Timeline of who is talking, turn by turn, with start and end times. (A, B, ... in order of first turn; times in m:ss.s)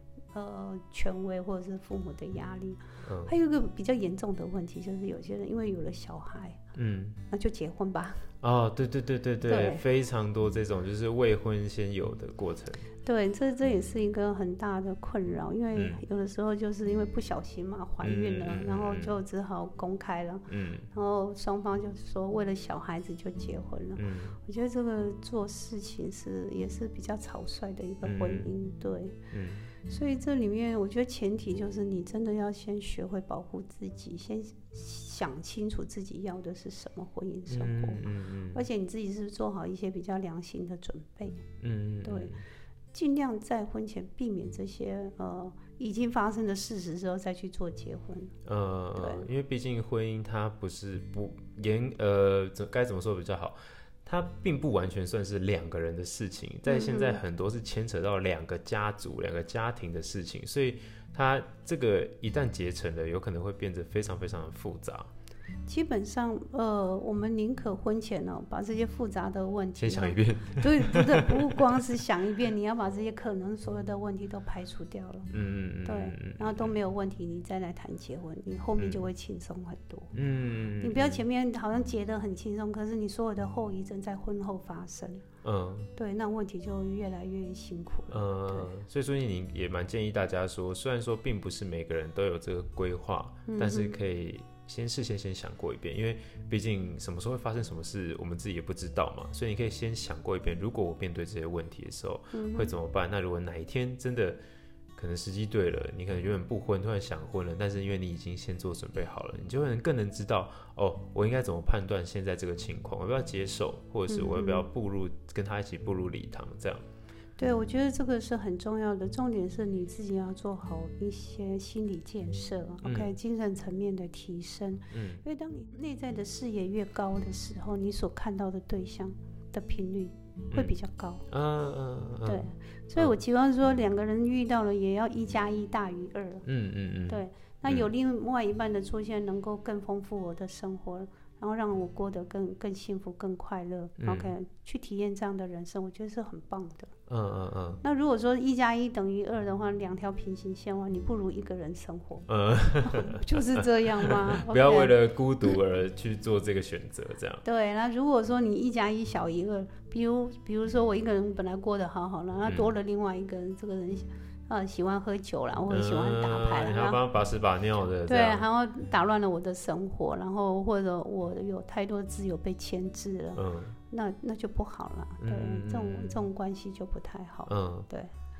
0:00.3-0:06.6 A
0:03.0-0:03.3 B
0:06.8-0:07.2 B
0:07.3-0:08.3 A
0:08.4-0:12.9 B
0:09.5-0:09.8 A
0:13.0-0:29.2 A
0:15.7-0:16.0 B
0:18.0-0:19.1 B
0:20.5-0:20.9 B
0:24.0-0:24.4 B
0:28.0-0:28.5 B
0:29.3-0:29.7 B
0:29.8-0:41.4 A
0:37.5-0:38.6 B
0:41.6-0:42.4 B
0:42.0-0:42.4 A
0:42.9-0:48.3 A
0:48.4-1:05.1 B
0:49.0-0:49.3 A
0:56.7-0:57.2 A
1:05.7-1:15.3 A
1:09.8-1:11.8 B
1:15.3-1:16.7 B
1:15.8-1:20.1 A
1:20.1-1:21.2 B
1:20.8-1:25.2 A
1:25.4-1:25.9 B
1:26.0-1:28.7 A
1:28.1-1:44.4 B
1:33.5-1:34.0 A
1:42.3-1:42.7 A
1:45.0-1:56.8 B
1:54.1-1:54.7 A
1:57.4-2:11.2 A
2:02.8-2:03.1 B
2:04.9-2:05.2 B
2:11.3-2:12.4 B
2:12.2-2:16.4 A
2:16.4-2:17.9 B
2:17.1-2:26.9 A
2:24.0-2:24.3 B
2:27.1-2:27.8 B
2:27.8-2:32.3 A
2:32.3-2:37.4 B
2:32.8-2:35.0 A
2:37.4-2:47.0 A
2:42.4-2:42.7 B
2:45.7-2:48.5 B
2:48.1-2:58.1 A
2:53.4-2:53.8 B
2:55.2-2:56.2 B
2:57.5-2:57.9 B